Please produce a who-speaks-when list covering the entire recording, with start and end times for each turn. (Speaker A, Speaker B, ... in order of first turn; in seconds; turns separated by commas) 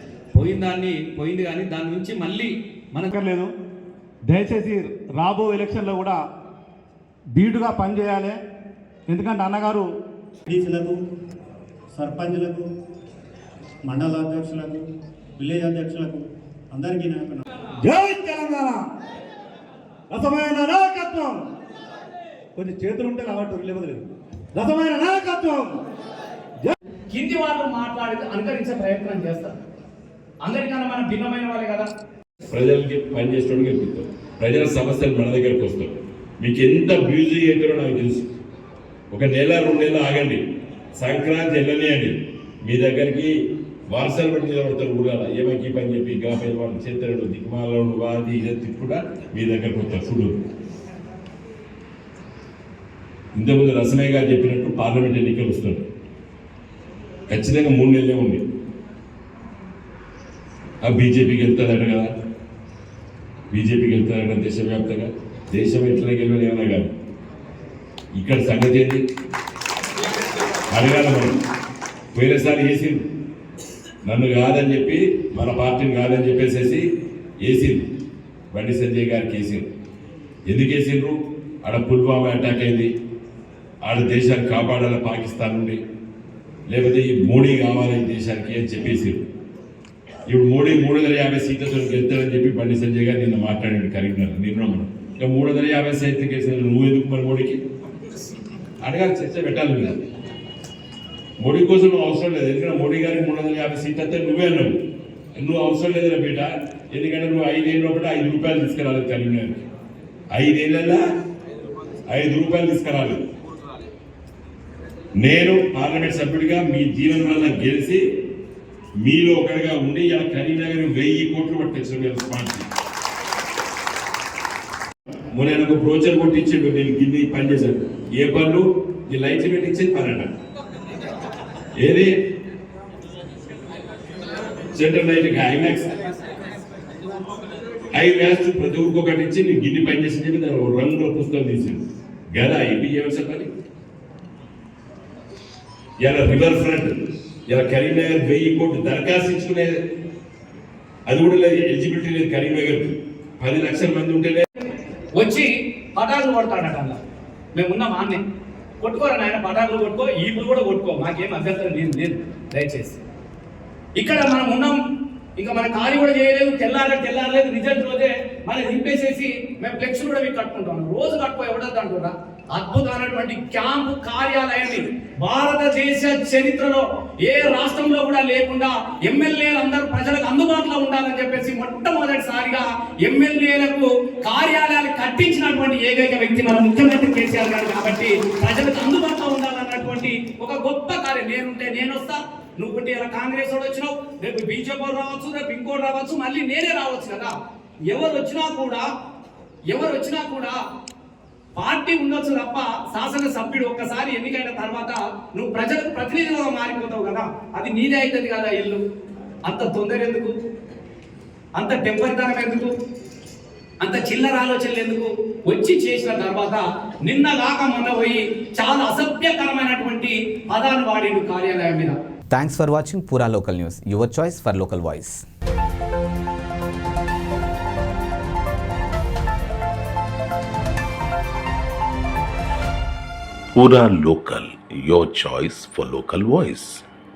Speaker A: 0.3-3.1, Speaker B: 3.1-3.5, Speaker B: 4.3-6.2, Speaker B: 7.3-8.4, Speaker B: 9.1-9.9, Speaker C: 10.4-11.0, Speaker C: 11.9-12.7, Speaker C: 13.8-14.8, Speaker C: 15.4-17.4, Speaker B: 17.8-18.9, Speaker B: 20.1-21.4, Speaker B: 22.6-24.0, Speaker B: 24.5-25.8, Speaker A: 27.1-29.5, Speaker A: 30.4-31.9, Speaker D: 32.5-38.3, Speaker D: 39.1-40.4, Speaker D: 41.0-43.3, Speaker D: 43.9-50.4, Speaker D: 53.4-55.9, Speaker D: 57.3-58.4, Speaker D: 60.8-62.1, Speaker D: 63.5-66.9, Speaker D: 68.2-69.0, Speaker D: 70.7-71.4, Speaker D: 72.1-73.1, Speaker D: 74.0-76.8, Speaker D: 77.4-77.9, Speaker D: 78.5-79.7, Speaker D: 80.5-82.9, Speaker D: 83.8-85.8, Speaker D: 86.7-89.2, Speaker D: 90.3-97.6, Speaker D: 98.8-100.0, Speaker D: 101.4-104.7, Speaker D: 105.3-109.6, Speaker D: 110.3-111.0, Speaker D: 112.1-113.2, Speaker D: 115.2-118.0, Speaker D: 119.0-122.7, Speaker D: 125.3-130.3, Speaker D: 131.8-132.1, Speaker D: 134.7-135.9, Speaker D: 137.9-141.8, Speaker D: 142.3-143.5, Speaker D: 146.0-149.8, Speaker D: 151.1-154.4, Speaker A: 155.1-157.0, Speaker A: 157.5-158.2, Speaker A: 158.8-163.0, Speaker A: 164.0-164.8, Speaker A: 165.4-197.3, Speaker A: 197.9-198.8, Speaker A: 199.7-200.5, Speaker A: 201.6-208.8, Speaker A: 209.4-210.3, Speaker A: 211.6-212.7, Speaker A: 213.8-221.9, Speaker E: 222.3-225.2, Speaker F: 233.5-236.8